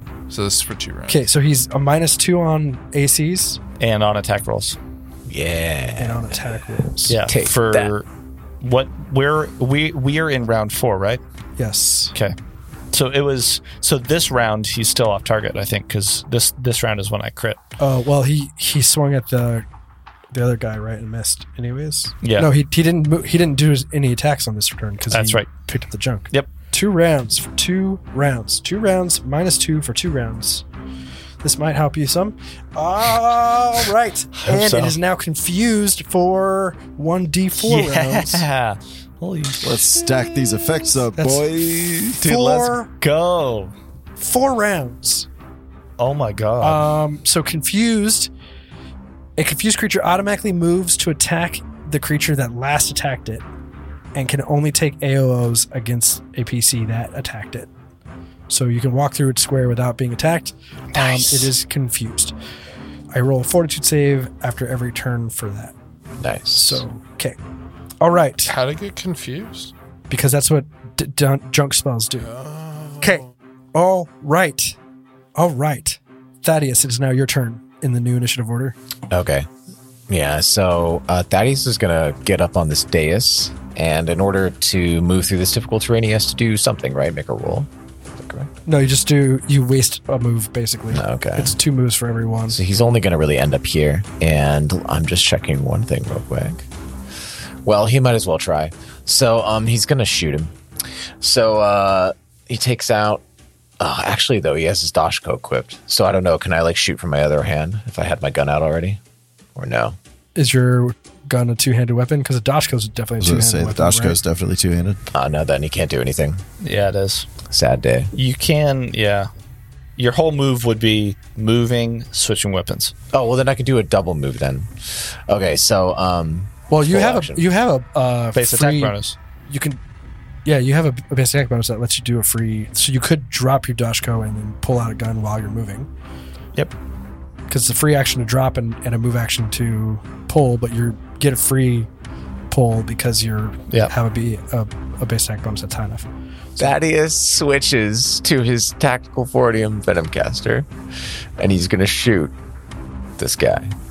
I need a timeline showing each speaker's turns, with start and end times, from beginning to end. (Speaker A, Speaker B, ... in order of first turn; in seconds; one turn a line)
Speaker A: 0.3-1.2
Speaker B: 1.1-3.6
Speaker C: 3.8-4.8
Speaker D: 5.3-6.3
Speaker B: 6.0-7.2
Speaker C: 7.1-8.0
Speaker D: 7.2-7.9
Speaker C: 8.6-11.2
Speaker B: 11.6-12.1
Speaker C: 12.9-17.6
Speaker B: 17.8-19.6
Speaker B: 20.3-30.6
Speaker C: 22.2-22.5
Speaker C: 25.1-25.5
Speaker B: 31.4-38.4
Speaker C: 34.4-35.0
Speaker C: 37.6-39.9
Speaker E: 39.6-42.2
Speaker B: 41.1-42.9
Speaker C: 42.2-43.7
Speaker B: 44.2-45.3
Speaker C: 46.0-46.8
Speaker B: 46.6-48.3
Speaker B: 49.4-53.4
Speaker B: 54.1-57.7
Speaker B: 58.5-62.3
Speaker C: 60.9-61.5
Speaker B: 63.1-65.7
Speaker D: 66.2-66.8
Speaker B: 66.5-67.3
Speaker B: 68.0-68.5
Speaker A: 68.5-69.7
Speaker B: 70.1-72.3
Speaker A: 72.2-73.3
Speaker B: 73.7-74.7
Speaker B: 75.3-78.8
Speaker D: 79.1-79.5
Speaker D: 80.1-88.5
Speaker B: 88.7-92.6
Speaker D: 90.9-91.6
Speaker D: 92.5-96.6
Speaker D: 97.6-100.5
Speaker D: 101.2-103.2
Speaker D: 103.8-109.0
Speaker D: 109.5-110.0
Speaker B: 110.3-114.2
Speaker E: 113.2-115.0
Speaker D: 115.1-116.4
Speaker C: 116.6-117.3
Speaker D: 117.5-118.1
Speaker C: 118.1-119.3
Speaker C: 120.0-122.9
Speaker D: 123.1-127.5
Speaker B: 126.7-128.9
Speaker C: 128.3-129.1
Speaker B: 129.5-129.8
Speaker B: 130.4-135.9
Speaker B: 137.5-141.9
Speaker B: 142.5-146.1
Speaker D: 146.6-150.7
Speaker D: 151.4-152.3
Speaker D: 153.2-153.7